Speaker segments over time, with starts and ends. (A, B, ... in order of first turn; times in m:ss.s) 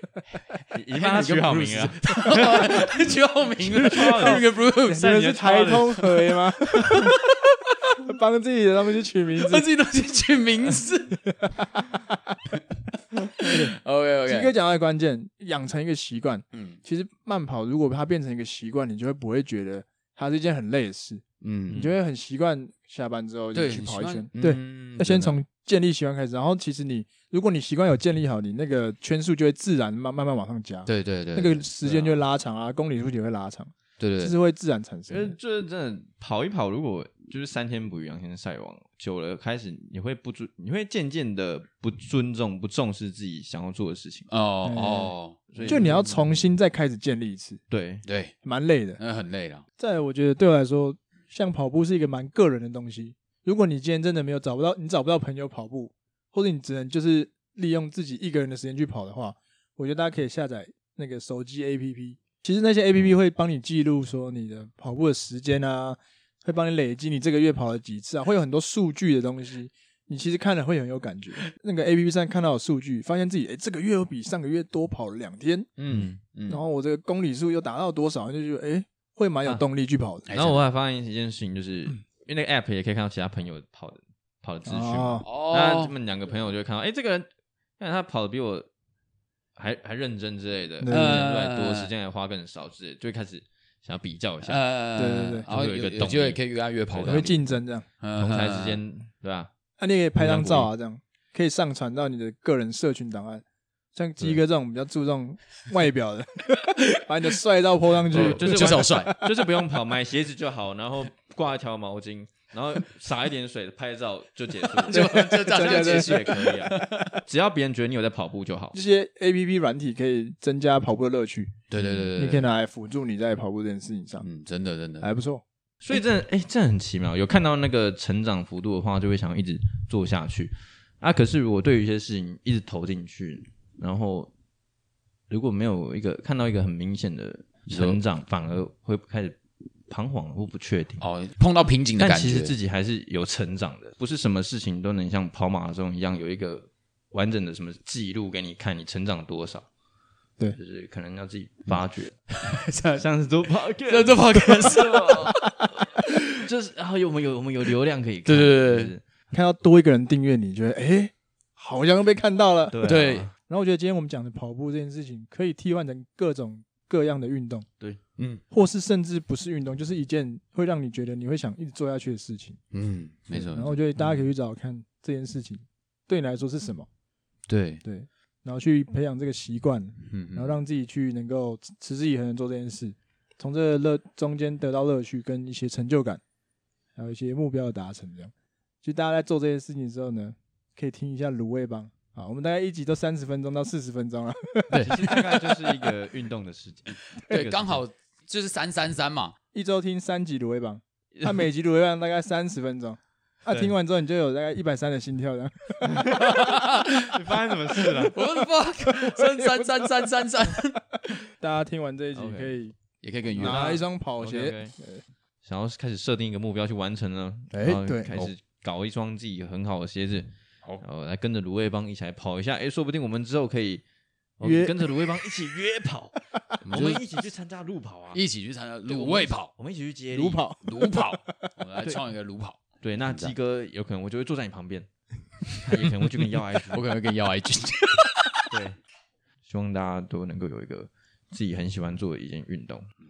0:00.7-0:02.9 A
0:00.9-0:05.1 B
0:03.6-0:06.0 A
0:03.9-0:07.1 C
0:06.9-0:07.8 B
0:08.0-0:09.6 C
0:09.4-0:11.2 B
0:11.3-0:12.4 C
0:13.2-0:14.5 B
0:13.4-0:13.7 C
0:14.3-0:35.4 C
0:16.5-0:16.8 B
0:21.4-0:21.8 B
0:21.7-0:21.9 A
0:23.5-0:25.4 B
0:30.9-0:31.6 B
0:31.8-0:32.1 A
0:34.0-0:34.4 B
0:35.1-0:44.3 A
0:44.3-0:46.3 B
0:44.6-0:45.1 C
0:45.5-0:45.9 A
0:45.6-0:47.6 C
0:47.7-0:48.0 A
0:48.1-0:48.4 B
0:48.4-0:49.0 C
0:49.0-0:49.6 B
0:49.8-1:15.7 C
1:15.8-1:16.6 B
1:16.5-1:20.2 C
1:20.3-1:20.6 B
1:20.3-1:27.3 A
1:24.6-1:25.3 C
1:25.2-1:25.9 B
1:27.8-1:28.7 A
1:29.6-1:34.6 A
1:30.8-1:31.3 C
1:30.9-1:31.9 B
1:34.5-1:38.8 B
1:35.0-1:35.5 C
1:35.5-1:36.4 A
1:36.9-1:37.2 A
1:37.0-1:37.9 C
1:38.2-1:39.5 A
1:39.8-1:43.4 C
1:40.2-1:40.7 A
1:43.9-1:49.2 C
1:48.1-1:49.2 B
1:48.1-1:58.8 A
1:54.6-1:57.2 B
1:54.9-1:56.2 C
1:58.7-2:01.6 C
2:01.7-2:02.5 B
2:02.1-2:04.3 C
2:04.2-2:05.1 B
2:05.0-2:05.4 C
2:05.8-2:14.3 A
2:15.3-2:19.4 A
2:17.7-2:18.0 B
2:19.9-2:21.0 A
2:21.0-2:22.5 B
2:22.0-2:29.7 A
2:30.6-2:32.3 A
2:32.3-2:33.1 B
2:33.0-2:35.8 A
2:33.7-2:35.6 B
2:36.4-2:39.0 A
2:38.3-2:38.9 B
2:39.3-2:42.9 C
2:42.7-2:43.3 A
2:42.8-2:43.3 B
2:43.5-2:47.6 C
2:48.5-2:52.6 C
2:52.7-2:54.2 B
2:53.3-2:56.9 C
2:57.5-2:57.8 B
2:57.8-3:06.2 C
3:00.1-3:00.6 B
3:07.0-3:08.3 C
3:08.8-3:15.2 C
3:14.7-3:15.5 B
3:14.8-3:17.8 A
3:17.3-3:19.4 B
3:19.5-3:26.3 C
3:21.2-3:21.5 A
3:25.9-3:28.2 A
3:26.2-3:27.2 B
3:28.1-3:30.8 B
3:29.0-3:29.6 C
3:31.4-3:32.7 C
3:32.2-3:32.5 A
3:33.0-3:33.8 B
3:33.4-3:34.7 A
3:33.4-3:35.0 C
3:35.4-3:40.3 A
3:37.5-3:38.1 C
3:40.8-3:43.8 A
3:44.4-3:48.2 A
3:44.4-3:44.8 C
3:46.6-3:47.0 B
3:48.1-3:49.5 B
3:48.9-3:50.4 A
3:50.1-3:51.5 C
3:50.6-3:53.4 B
3:52.8-3:54.9 A
3:55.6-3:56.8 A
3:56.7-3:58.5 B
3:58.5-3:58.8 A
3:59.4-4:02.9 A